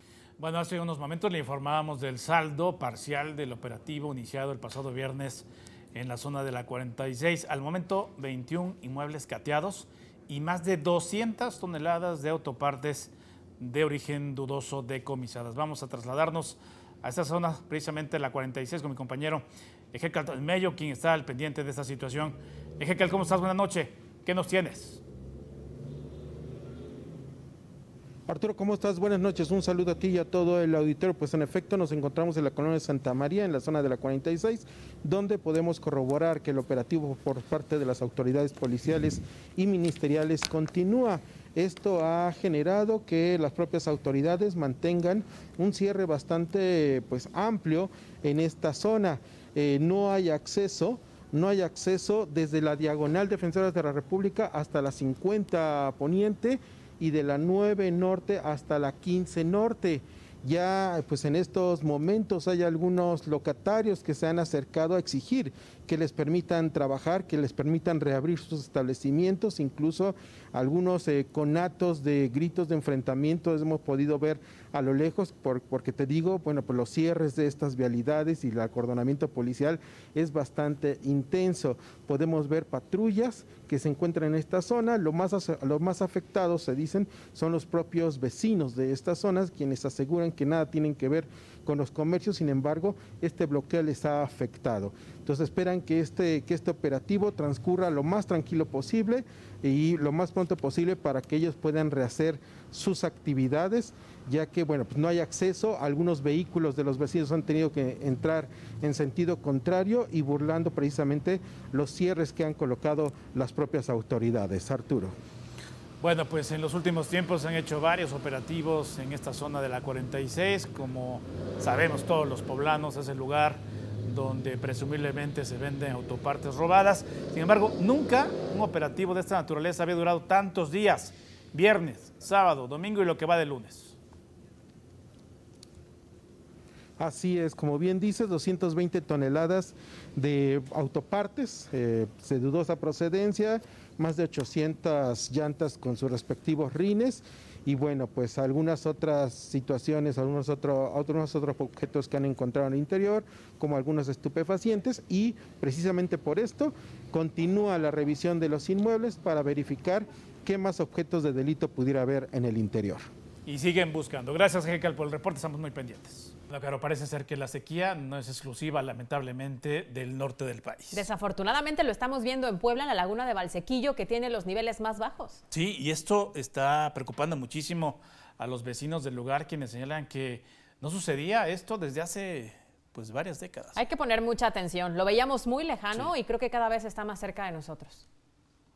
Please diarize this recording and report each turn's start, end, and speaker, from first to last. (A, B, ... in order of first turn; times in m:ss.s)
0:00.4-0:25.0 A
0:28.3-1:55.1 B
1:56.0-2:14.0 A
2:17.0-2:43.1 B
2:43.4-2:51.0 A
2:50.9-2:55.4 C
2:55.5-3:03.8 A
3:03.8-3:08.0 C